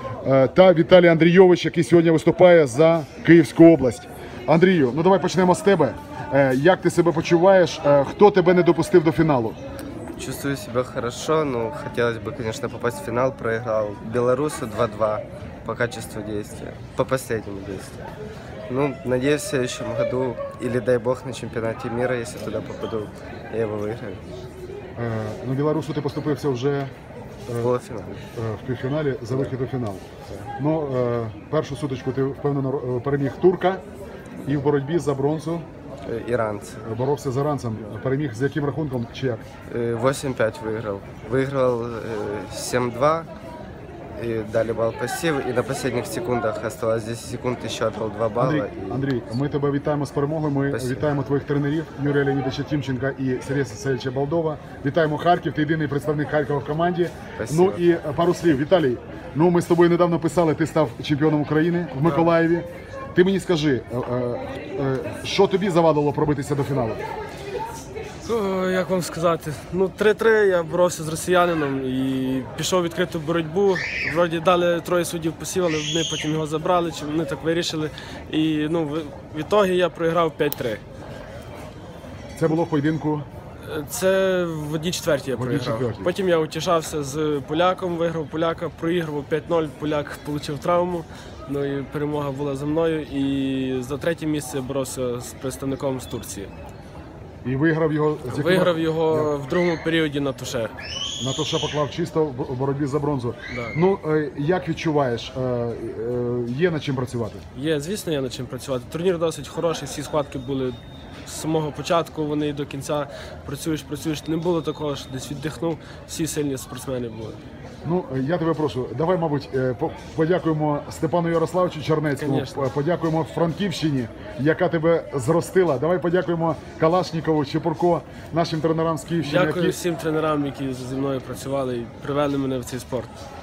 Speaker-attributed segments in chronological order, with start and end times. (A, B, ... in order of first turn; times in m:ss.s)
0:00.2-0:09.6 A
0:10.2-0:18.1 B
0:18.7-0:24.2 B
0:25.0-0:26.9 A
0:27.5-0:28.2 B
0:28.3-0:30.0 A
0:30.6-0:33.8 A
0:34.4-0:35.6 A
0:36.0-0:36.8 B
0:36.8-0:39.4 A
0:39.7-0:43.3 B
0:44.2-0:49.1 B
0:48.4-1:07.0 A
0:50.7-0:51.2 B
0:57.4-0:57.8 B
1:02.0-1:02.3 C
1:08.2-1:20.8 C
1:22.3-1:23.2 A
1:23.6-1:36.5 C
1:25.3-1:26.1 A
1:37.4-1:39.3 A
1:38.3-1:40.7 C
1:41.2-1:47.4 A
1:43.5-1:43.8 C
1:47.5-1:57.4 C
1:57.8-2:09.8 A
2:02.2-2:02.7 C
2:09.2-2:13.1 C